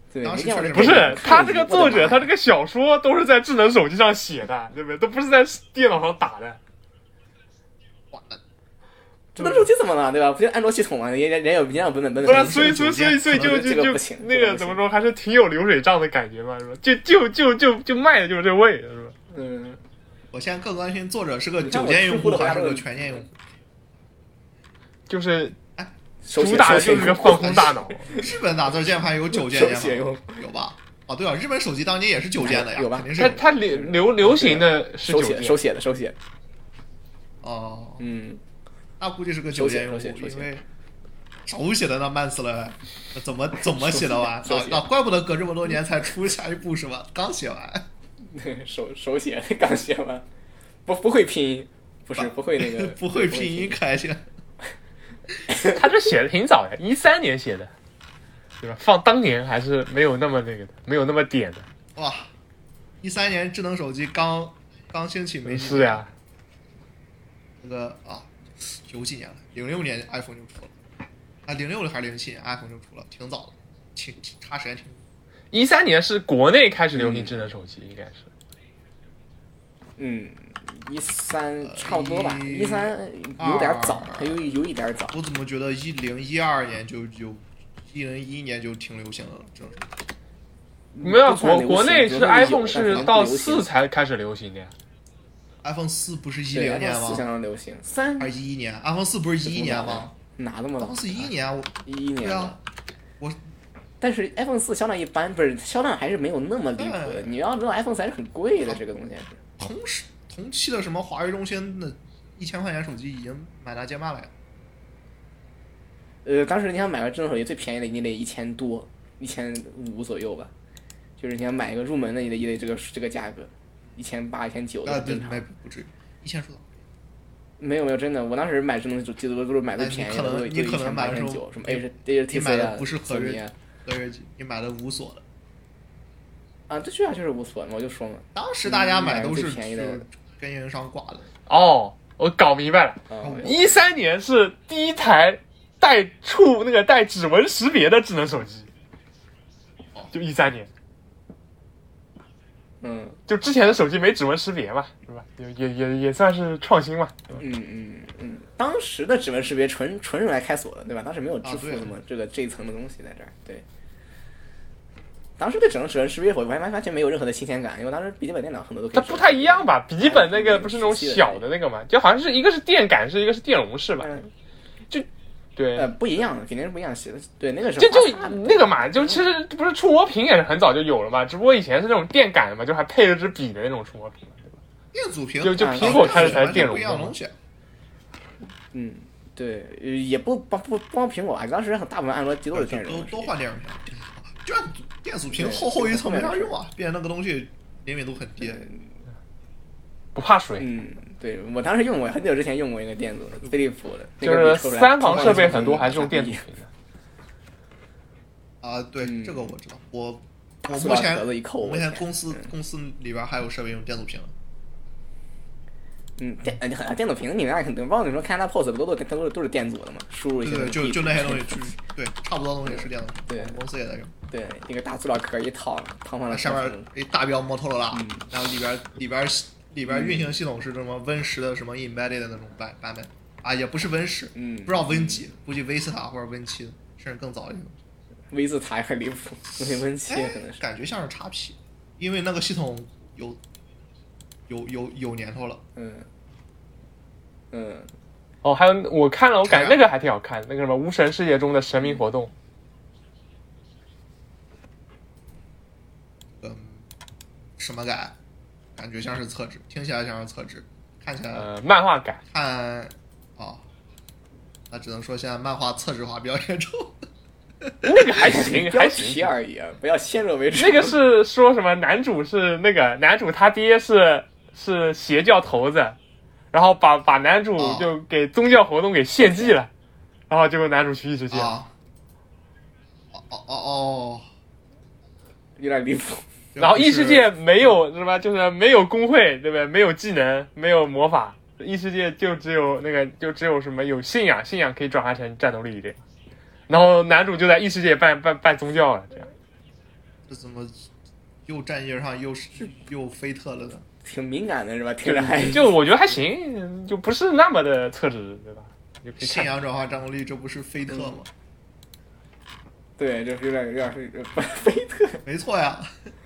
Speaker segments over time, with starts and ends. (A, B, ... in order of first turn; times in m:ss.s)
0:00.1-0:02.3 A
0:00.2-0:01.3 B
0:00.7-0:06.6 C
0:08.1-0:08.4 B
0:09.4-0:09.7 C
0:09.4-0:14.8 A
0:12.2-0:13.6 B
0:12.2-0:19.2 C
0:19.3-0:19.8 A
0:20.3-0:23.3 B
0:21.6-0:23.0 A
0:25.1-0:25.6 C
0:26.2-0:28.4 A
0:26.4-0:28.2 C
0:26.6-0:33.6 B
0:29.3-0:30.4 A
0:32.4-0:36.2 A
0:33.2-0:35.6 C
0:37.4-0:38.0 B
0:38.0-0:38.4 A
0:39.0-0:40.6 B
0:39.5-0:40.5 A
0:41.5-0:47.9 B
0:43.6-0:44.9 A
0:48.2-0:50.2 A
0:50.9-0:53.8 A
0:52.2-0:54.3 B
0:55.5-0:57.7 C
0:58.6-1:01.7 C
1:02.0-1:02.3 B
1:03.0-1:06.1 B
1:05.4-1:06.1 C
1:07.6-1:10.7 B
1:11.4-1:15.0 B
1:15.5-1:18.3 C
1:16.9-1:17.4 A
1:20.0-1:25.2 A
1:21.6-1:24.5 B
1:25.1-1:29.9 B
1:30.9-1:33.7 A
1:31.0-1:34.7 C
1:35.6-1:37.3 B
1:36.5-1:38.3 A
1:38.2-1:40.1 B
1:39.4-1:41.3 A
1:40.8-1:42.6 B
1:41.9-1:42.6 A
1:44.0-1:49.4 A
1:46.8-1:47.4 B
1:49.6-1:54.3 B
1:56.2-2:00.5 A
2:01.2-2:05.4 A
2:04.8-2:06.7 B
2:07.6-2:13.5 A
2:09.8-2:15.2 B
2:16.7-2:20.1 A
2:18.4-2:21.3 B
2:21.5-2:28.7 C
2:23.1-2:23.7 A
2:23.2-2:23.8 B
2:30.1-2:30.7 C
2:32.8-2:33.2 A
2:33.3-2:37.4 C
2:37.4-2:43.6 A
2:41.4-2:42.0 B
2:45.4-2:51.5 A
2:48.9-2:54.1 C
2:54.0-2:54.3 A
2:54.9-2:55.9 C
2:55.8-2:59.2 A
2:57.8-3:04.6 C
3:04.9-3:07.4 B
3:05.4-3:07.2 C
3:05.6-3:06.5 A
3:08.7-3:13.3 A
3:12.5-3:18.7 B
3:15.3-3:16.6 A
3:18.6-3:18.9 A
3:20.2-3:20.7 C
3:20.6-3:26.4 A
3:24.2-3:26.7 C
3:25.0-3:25.9 B
3:28.6-3:34.3 B
3:29.0-3:29.4 A
3:30.7-3:32.5 A
3:36.2-3:41.8 A
3:40.4-3:44.1 B
3:42.6-3:43.6 A
3:44.3-3:46.9 A
3:46.3-3:57.8 B
3:47.9-3:48.3 A
3:49.9-3:50.3 A
3:54.4-3:55.3 A
3:58.3-4:00.6 A
4:00.1-4:03.4 B
4:04.5-4:05.6 B
4:05.8-4:06.1 A
4:07.5-4:07.9 A
4:08.4-4:12.3 C
4:09.4-4:09.8 B
4:16.4-4:16.9 B
4:17.6-4:18.2 B
4:18.8-4:21.5 B
4:21.3-4:22.2 C
4:22.3-4:23.6 B
4:24.7-4:27.0 B
4:27.6-4:27.9 B
4:27.8-4:29.3 C
4:28.1-4:31.0 A
4:30.6-4:36.0 C
4:36.5-4:39.7 C
4:37.6-4:37.9 B
4:39.2-4:39.6 A
4:40.3-4:41.5 C
4:41.3-4:41.7 B
4:43.1-4:44.2 B
4:45.6-4:46.3 A
4:46.6-4:47.4 B
4:46.6-4:56.0 C
4:56.7-4:59.3 C
5:00.3-5:00.9 B
5:01.4-5:03.9 B
5:04.0-5:05.7 A
5:05.0-5:09.5 C
5:09.2-5:11.3 B
5:10.9-5:11.2 A
5:13.0-5:15.2 A
5:15.2-5:16.1 B